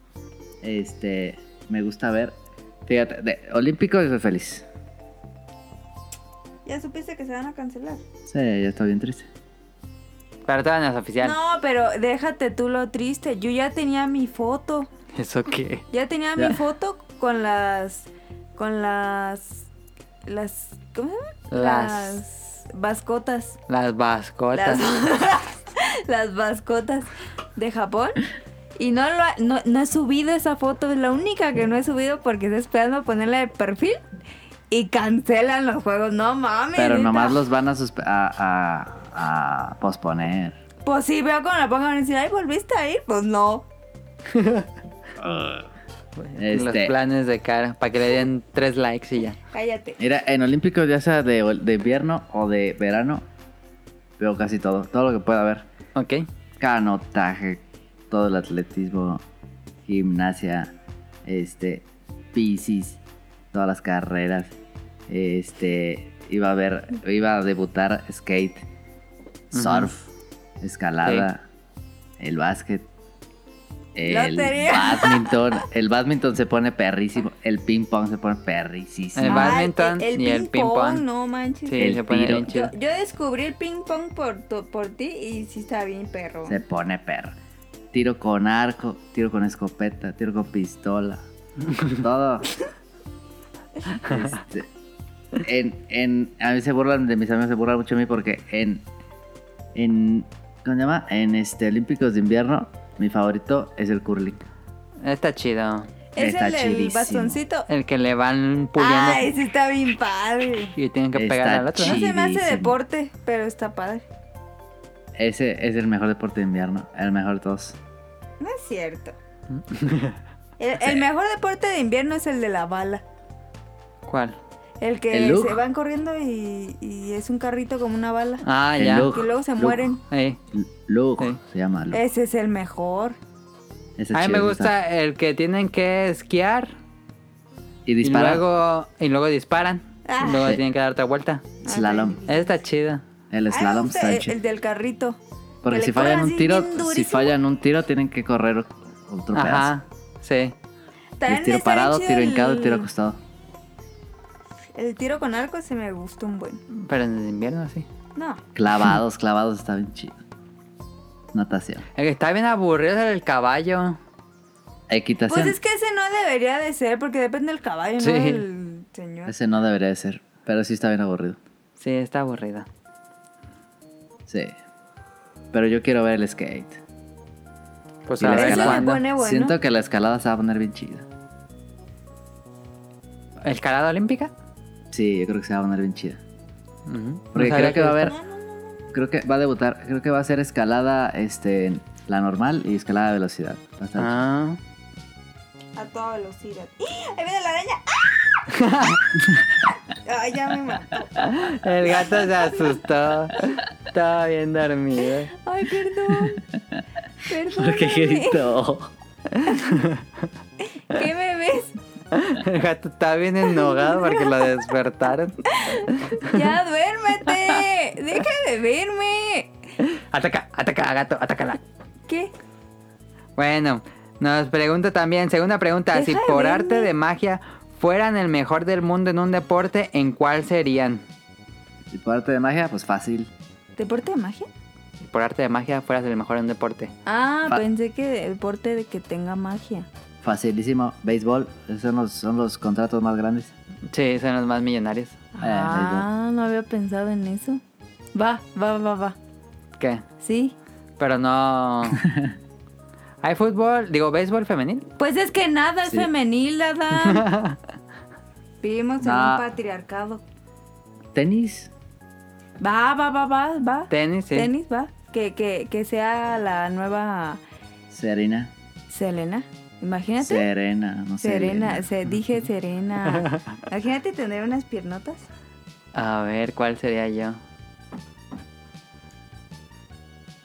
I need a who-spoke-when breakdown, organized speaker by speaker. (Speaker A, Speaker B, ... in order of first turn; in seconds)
Speaker A: 0.6-4.7, 8.3-9.3, 36.8-40.6, 45.2-45.7, 46.4-46.9, 50.0-53.2, 54.2-55.7, 56.6-59.2, 59.9-60.7, 61.2-63.0, 63.5-64.5, 65.1-68.7, 69.5-70.1, 70.6-71.4, 72.2-72.9, 73.9-79.6, 81.8-82.5, 86.5-87.3, 87.9-91.2, 91.8-92.5, 94.0-94.7, 95.4-98.8, 99.7-104.4, 106.2-107.4, 111.2-112.8, 115.1-117.8, 125.1-125.6, 128.8-129.9, 130.5-132.0, 134.0-134.7, 137.8-138.4, 141.6-142.2, 143.3-144.3, 145.6-149.7, 151.2-153.2, 158.5-160.2, 161.3-161.8, 164.9-165.6, 169.2-171.4, 174.3-174.5, 175.5-176.8, 178.2-181.1, 184.9-186.2, 187.3-188.2, 188.9-194.2, 201.2-201.5, 206.2-206.8, 207.5-208.9, 231.9-233.3, 240.2-243.5, 245.4-246.1, 252.0-252.3, 259.0-259.4, 261.1-261.7, 267.9-268.5, 270.2-271.8
Speaker B: 6.6-8.0, 11.2-14.9, 15.9-19.7, 20.2-23.6, 24.5-28.2, 28.8-34.0, 34.7-37.4, 40.8-43.6, 49.5-50.0, 74.0-75.4, 79.2-86.6, 106.1-107.7, 108.8-110.7, 111.8-114.0, 118.4-119.1, 120.6-123.0, 124.8-128.4, 129.1-130.0, 131.9-133.2, 140.1-140.6, 141.6-142.5, 143.5-147.3, 151.2-152.9, 154.7-156.6, 158.2-158.4, 165.3-169.3, 178.2-179.6, 188.0-188.8, 195.8-198.5, 199.9-201.2, 202.0-202.7, 205.3-206.4, 207.2-208.5, 210.8-211.8, 213.6-214.5, 215.5-219.5, 225.9-226.9, 233.8-234.5, 237.1-239.9, 245.3-247.6, 248.1-249.2, 250.2-250.5, 255.0-257.3, 258.6-260.2, 262.6-267.4, 268.9-270.5, 271.2-275.3
Speaker C: 10.5-11.3, 15.1-15.8, 21.5-22.2, 23.7-24.8, 44.3-44.7, 46.2-49.4, 55.9-56.2, 69.5-69.9, 79.2-81.0, 81.7-82.7, 105.0-105.9, 107.7-109.3, 110.8-112.0, 119.5-120.2, 124.0-124.4, 128.4-129.1, 130.1-130.4, 134.1-136.8, 138.0-141.5, 142.3-143.0, 149.3-150.5, 156.7-157.8, 161.9-164.0, 168.0-168.4, 171.8-172.7, 178.1-179.0, 183.4-184.3, 186.9-188.1, 194.0-194.6, 198.5-199.1, 201.3-205.3, 209.3-210.1, 212.1-215.4, 219.8-221.6, 223.3-231.0, 235.0-236.9, 243.9-245.2, 249.8-250.0, 251.0-252.1, 253.2-254.8, 256.9-257.6, 263.9-264.5, 275.9-277.4